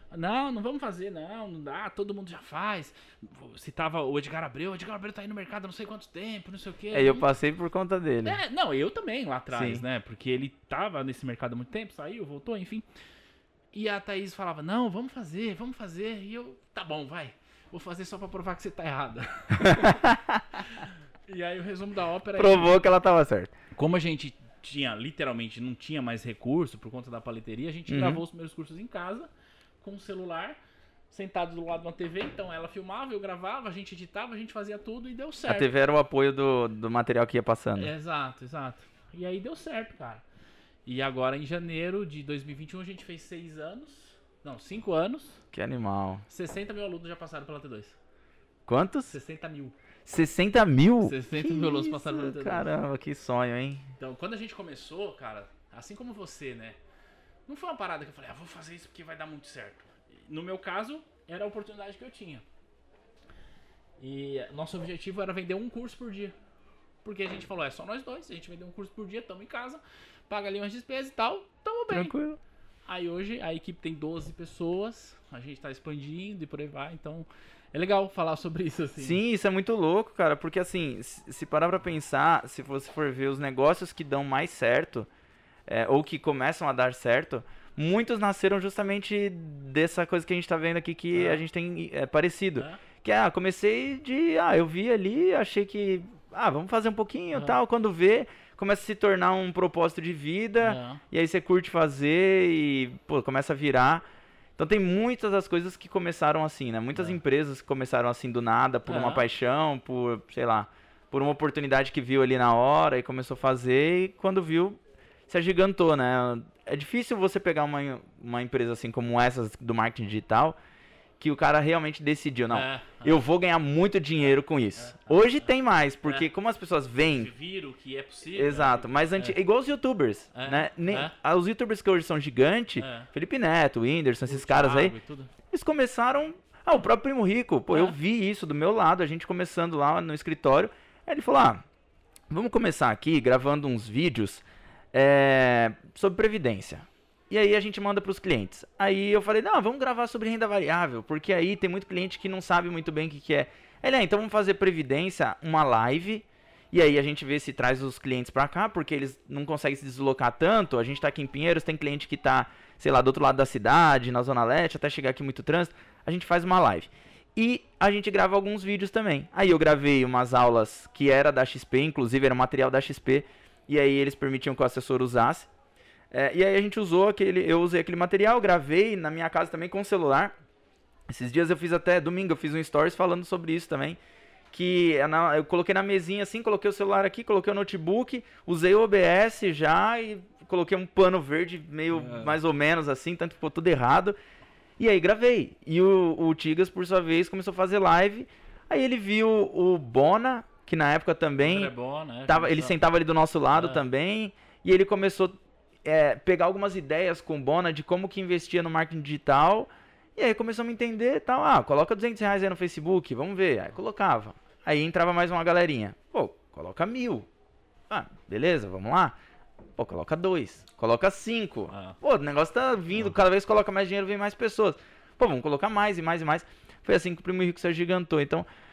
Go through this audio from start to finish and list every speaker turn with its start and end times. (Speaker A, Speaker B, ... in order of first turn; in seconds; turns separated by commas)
Speaker A: 0.1-7.3, Speaker B: 6.9-8.4, Speaker A: 8.2-12.9, Speaker B: 9.5-9.8, Speaker A: 13.7-20.0, Speaker B: 19.6-20.6, Speaker A: 20.6-22.8, Speaker B: 22.4-23.5, Speaker A: 23.7-29.3, Speaker B: 27.9-28.2, Speaker A: 29.8-30.6, Speaker A: 31.1-35.7, Speaker B: 35.5-37.9, Speaker A: 37.8-40.2, Speaker A: 40.9-45.4, Speaker B: 45.5-46.2, Speaker A: 46.3-48.0, Speaker B: 48.7-49.2, Speaker A: 49.1-49.8, Speaker B: 50.1-53.9, Speaker A: 51.0-52.7, Speaker A: 54.0-56.8, Speaker A: 57.5-62.4, Speaker A: 64.0-66.3, Speaker A: 67.0-72.2, Speaker B: 71.9-72.4, Speaker A: 72.9-79.2, Speaker B: 79.0-85.1, Speaker B: 85.7-104.0, Speaker A: 91.2-91.4, Speaker A: 100.6-101.0, Speaker B: 104.6-120.6, Speaker A: 108.9-109.2, Speaker B: 121.2-127.3, Speaker A: 122.5-123.2, Speaker A: 124.8-125.3, Speaker A: 127.0-129.4, Speaker B: 128.3-134.9, Speaker A: 130.3-131.2, Speaker A: 132.8-133.1, Speaker A: 134.3-135.3, Speaker B: 135.5-141.6, Speaker A: 137.7-138.0, Speaker B: 142.3-175.5, Speaker B: 176.1-180.3, Speaker B: 181.1-184.0, Speaker B: 184.5-194.2, Speaker A: 191.9-192.4, Speaker B: 194.8-201.7, Speaker A: 201.4-202.8, Speaker B: 202.3-205.3, Speaker A: 203.5-203.8, Speaker B: 205.8-217.3, Speaker B: 217.9-219.2, Speaker B: 219.8-228.5, Speaker A: 221.7-222.0